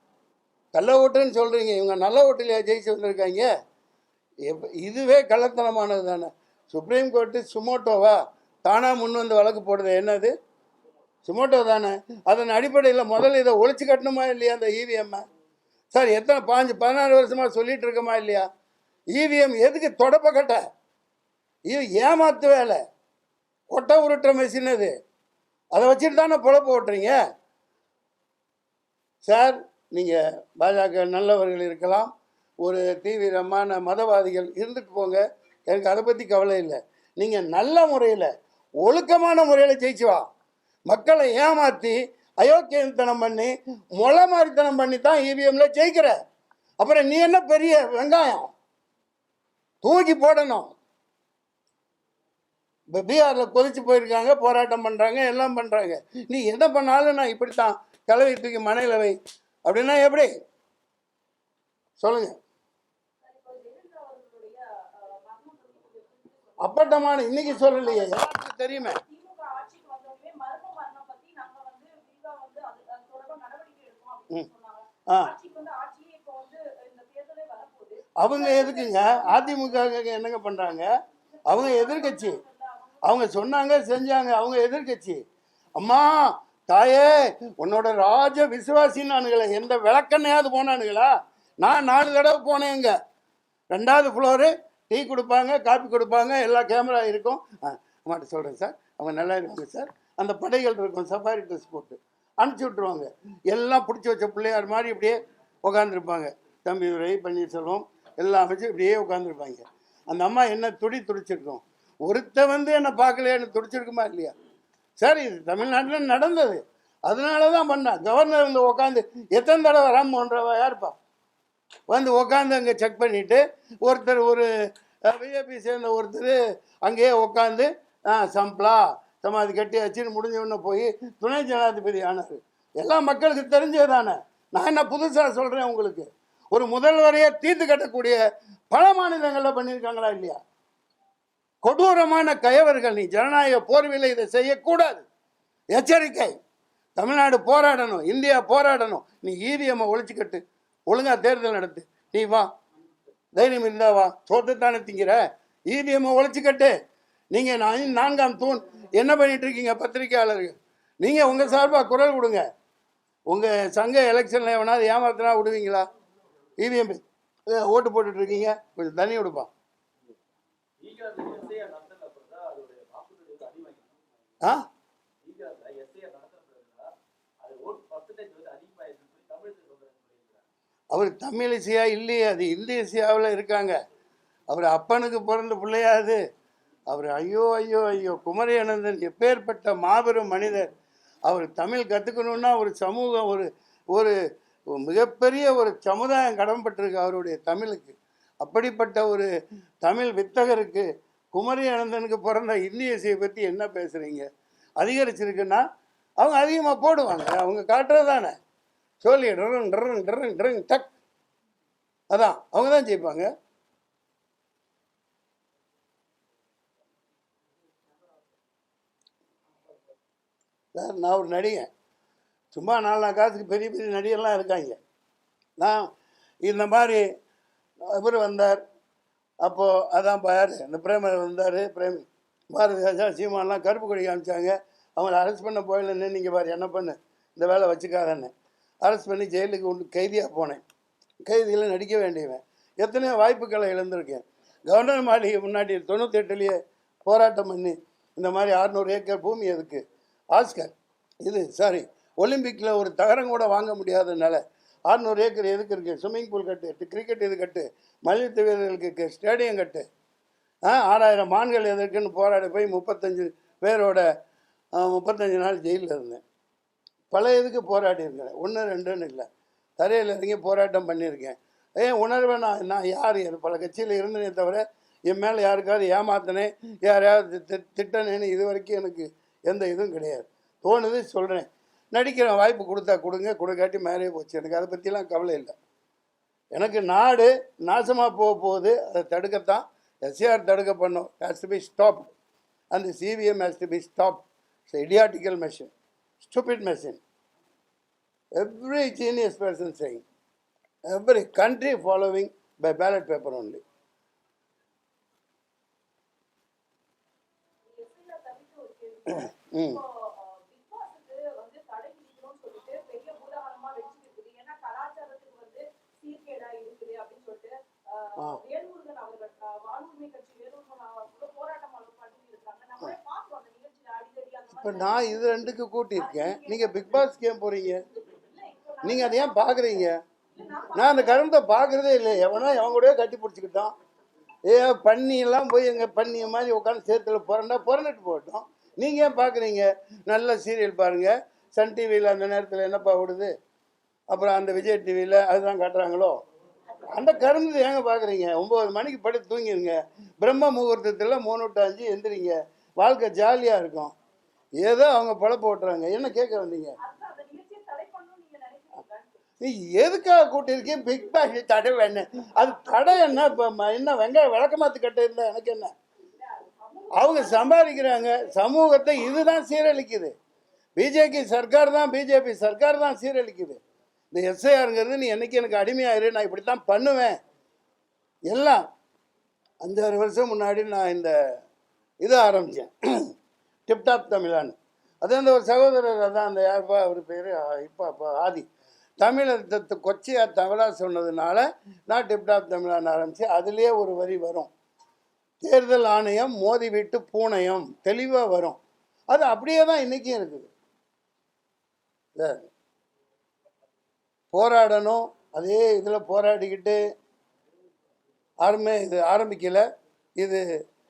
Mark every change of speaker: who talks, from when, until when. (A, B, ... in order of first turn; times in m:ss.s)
0:00.7-0:03.5 A
0:04.5-0:10.3 A
0:11.2-0:15.2 A
0:15.9-0:18.5 A
0:19.2-0:20.6 A
0:21.7-0:22.8 A
0:23.7-0:24.9 A
0:25.7-0:27.2 A
0:29.2-0:32.1 A
0:32.6-0:38.3 A
0:38.8-0:40.2 A
0:40.9-0:46.1 A
0:46.8-0:48.5 A
0:49.8-0:50.7 A
0:52.9-1:00.3 A
1:02.0-1:02.4 A
1:03.2-1:19.9 B
1:06.6-1:09.0 A
1:18.2-1:20.9 A
1:21.3-1:23.2 B
1:21.5-1:22.4 A
1:23.0-1:25.2 A
1:25.8-1:33.0 A
1:33.7-1:54.3 A
1:55.0-2:00.9 A
2:01.9-2:04.5 A
2:05.1-2:18.2 A
2:18.7-2:20.4 A
2:21.6-2:25.0 A
2:25.7-2:26.3 A
2:27.0-2:32.5 A
2:33.4-2:36.7 A
2:37.3-2:42.4 A
2:43.3-2:45.9 A
2:46.6-2:49.5 A
2:50.8-2:54.0 C
2:55.2-2:56.9 C
2:57.4-3:00.5 C
3:00.9-3:03.8 A
3:04.5-3:06.2 A
3:06.9-3:10.7 A
3:11.3-3:14.1 A
3:14.8-3:19.3 A
3:19.8-3:24.3 A
3:24.8-3:25.6 A
3:26.2-3:28.4 A
3:29.0-3:30.9 A
3:32.1-3:33.3 A
3:40.8-3:41.7 A
3:42.5-3:44.8 A
3:45.6-3:45.9 A
3:46.4-3:47.0 A
3:47.9-3:48.6 A
3:49.4-3:58.3 A
3:58.8-4:00.6 A
4:01.3-4:09.8 A
4:10.3-4:10.7 A
4:11.2-4:19.8 A
4:20.7-4:24.0 A
4:24.8-4:26.2 A
4:27.1-4:29.3 A
4:29.8-4:45.5 A
4:46.5-4:52.1 A
4:52.7-4:57.0 A
4:58.4-5:00.0 A
5:00.9-5:03.6 A
5:07.6-5:27.1 B
5:09.1-5:09.8 A
5:24.5-5:27.8 A
5:27.8-5:31.3 B
5:28.8-5:30.0 A
5:30.7-5:33.7 A
5:34.5-5:43.3 A
5:44.1-5:46.2 A
5:46.9-5:53.9 A
5:54.6-5:56.8 A
5:56.8-5:59.2 B
5:59.4-6:05.7 A
6:06.1-6:08.7 B
6:06.9-6:10.1 A
6:10.8-6:13.6 A
6:14.1-6:17.2 A
6:18.3-6:18.6 A
6:19.6-6:21.1 A
6:22.0-6:23.1 A
6:23.7-6:28.5 A
6:29.0-6:34.5 A
6:35.4-6:38.6 A
6:39.1-6:40.5 A
6:42.2-6:42.5 A
6:44.3-6:46.8 A
6:48.4-6:49.6 A